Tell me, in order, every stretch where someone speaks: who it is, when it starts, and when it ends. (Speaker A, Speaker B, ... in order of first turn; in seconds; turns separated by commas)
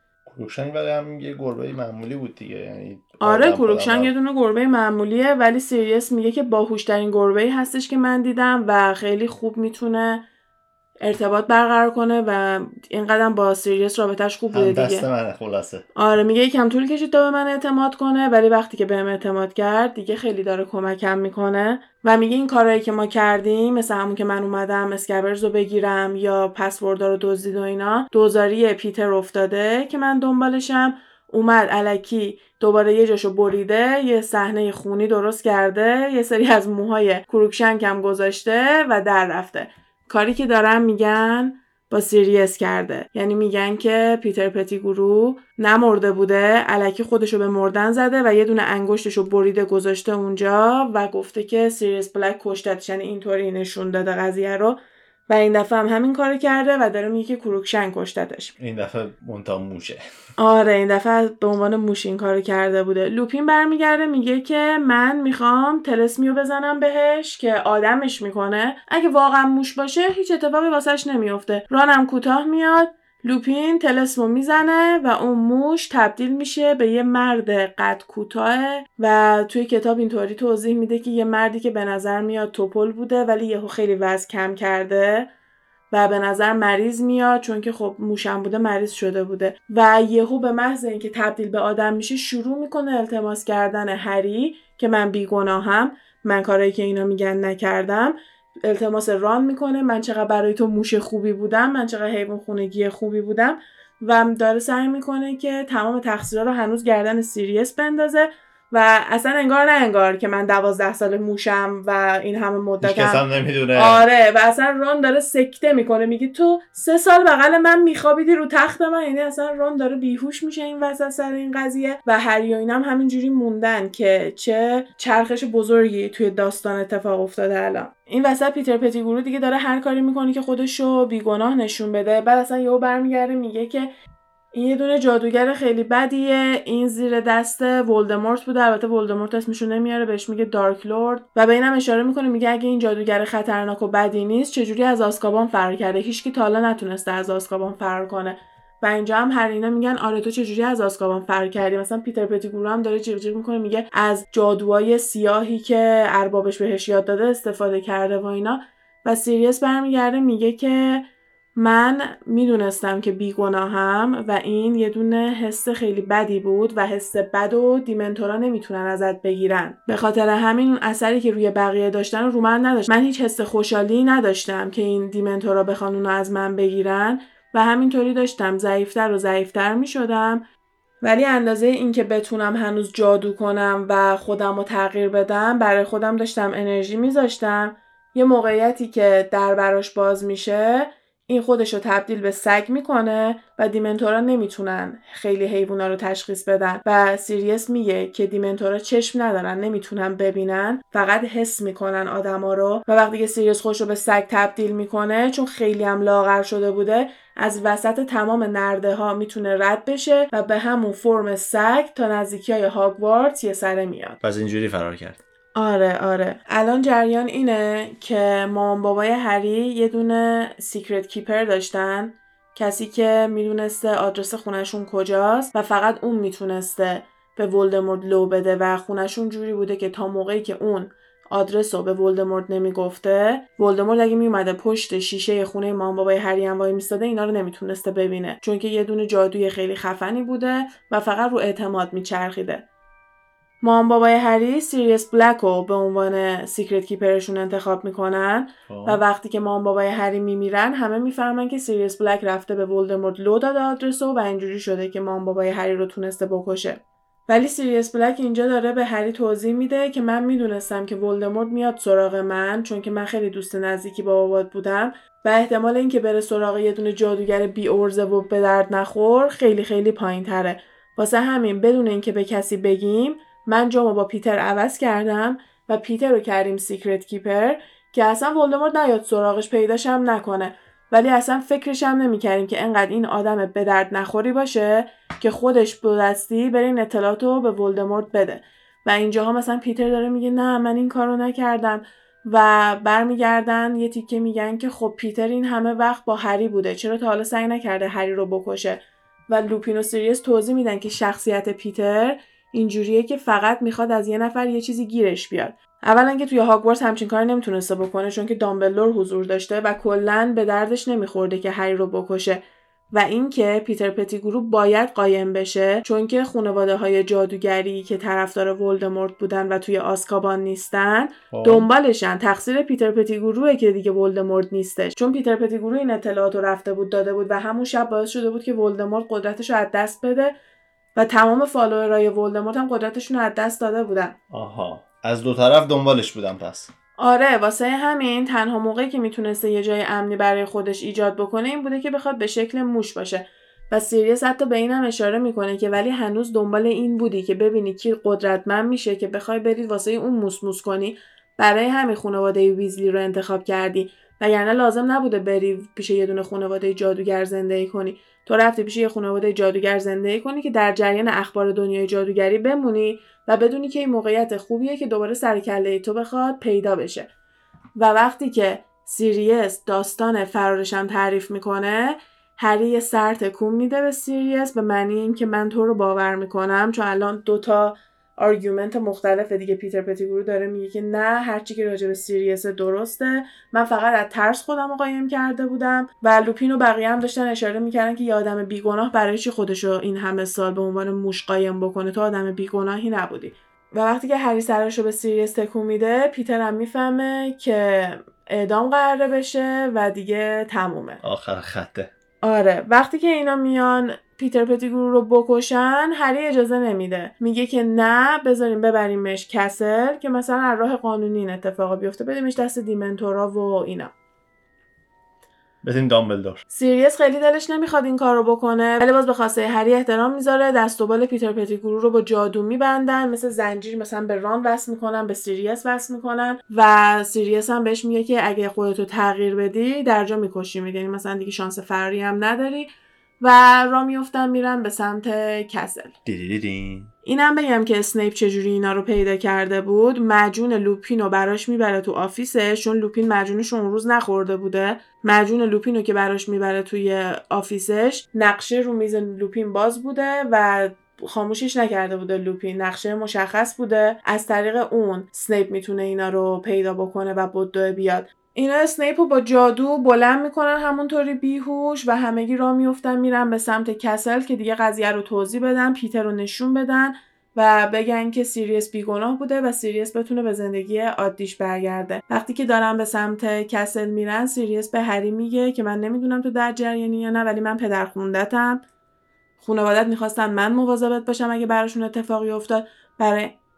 Speaker A: 0.3-4.1, Speaker B: 3.2-10.2, Speaker B: 11.0-15.1, Speaker A: 14.5-15.8, Speaker B: 15.9-54.8, Speaker B: 55.3-58.5, Speaker A: 58.6-60.0, Speaker B: 60.4-85.3, Speaker B: 85.9-113.2, Speaker A: 112.8-114.0, Speaker B: 113.8-133.9, Speaker B: 134.5-161.1, Speaker B: 161.6-180.4, Speaker B: 181.0-214.2, Speaker A: 214.2-215.2, Speaker B: 215.6-242.6, Speaker B: 243.6-312.4, Speaker A: 248.7-249.0, Speaker B: 312.9-330.3, Speaker A: 321.3-321.7, Speaker B: 331.0-334.2, Speaker A: 334.3-336.7, Speaker B: 337.0-367.1, Speaker B: 367.8-401.0, Speaker A: 401.0-401.9, Speaker B: 402.2-413.9, Speaker A: 415.6-416.4, Speaker B: 416.5-432.7, Speaker B: 433.2-435.9, Speaker A: 436.1-436.9, Speaker B: 437.1-478.6, Speaker B: 479.4-483.3